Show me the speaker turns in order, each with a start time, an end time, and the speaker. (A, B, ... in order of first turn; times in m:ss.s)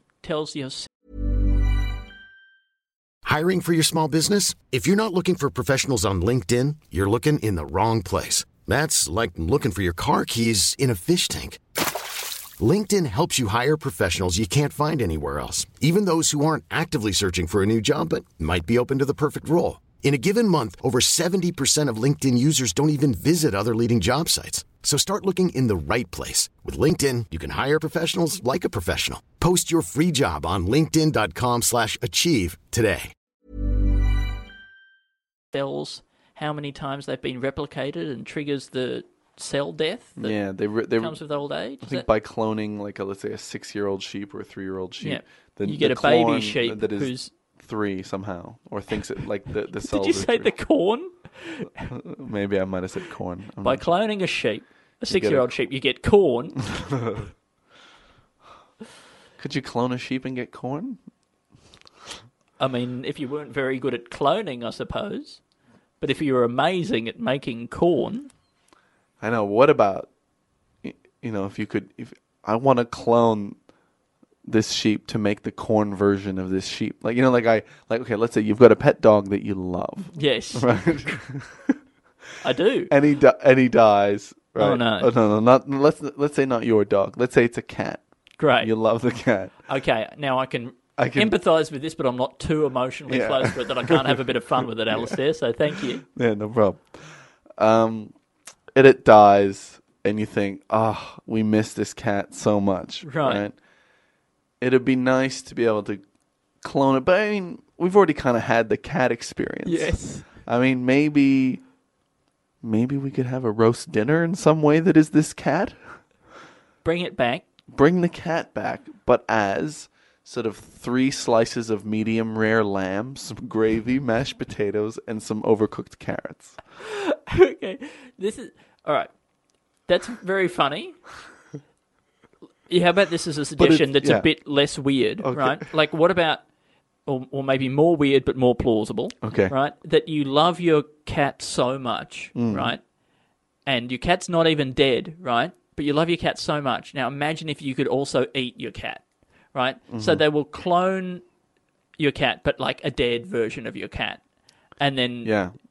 0:00.2-0:00.9 A
0:03.2-0:11.9 B
0:12.6-0:33.1 B
0:35.5-0:40.4 A
0:40.2-0:41.2 C
0:41.0-0:42.0 A
0:41.8-0:50.5 C
0:45.0-0:47.3 A
0:49.8-0:51.9 A
0:51.9-0:53.8 C
0:53.6-0:56.6 A
0:55.1-0:55.5 C
0:56.7-0:57.3 C
0:59.4-1:01.0 C
1:02.6-1:05.4 A
1:06.0-1:08.3 A
1:09.2-1:10.1 C
1:10.8-1:13.6 C
1:14.4-1:21.8 C
1:20.1-1:21.1 A
1:22.4-1:22.9 A
1:22.9-1:28.0 C
1:24.6-1:25.1 A
1:28.4-1:28.7 A
1:28.6-1:29.5 C
1:29.7-1:36.0 A
1:31.0-1:31.3 C
1:33.1-1:34.2 C
1:34.9-1:35.2 C
1:36.0-1:38.1 C
1:38.7-1:43.5 C
1:43.0-1:43.4 A
1:44.6-1:46.0 C
1:46.6-1:51.6 C
1:49.6-1:50.3 A
1:52.6-1:55.8 C
1:56.8-1:57.4 A
1:57.7-2:06.6 C
2:06.8-2:09.1 A
2:09.8-2:11.0 A
2:12.7-2:16.4 A
2:13.6-2:14.3 C
2:15.2-2:15.6 C
2:17.0-2:22.8 A
2:19.2-2:19.5 C
2:22.3-2:22.7 C
2:23.6-2:31.2 A
2:29.9-2:30.2 C
2:32.0-2:34.2 A
2:34.8-2:35.4 A
2:35.2-2:35.5 C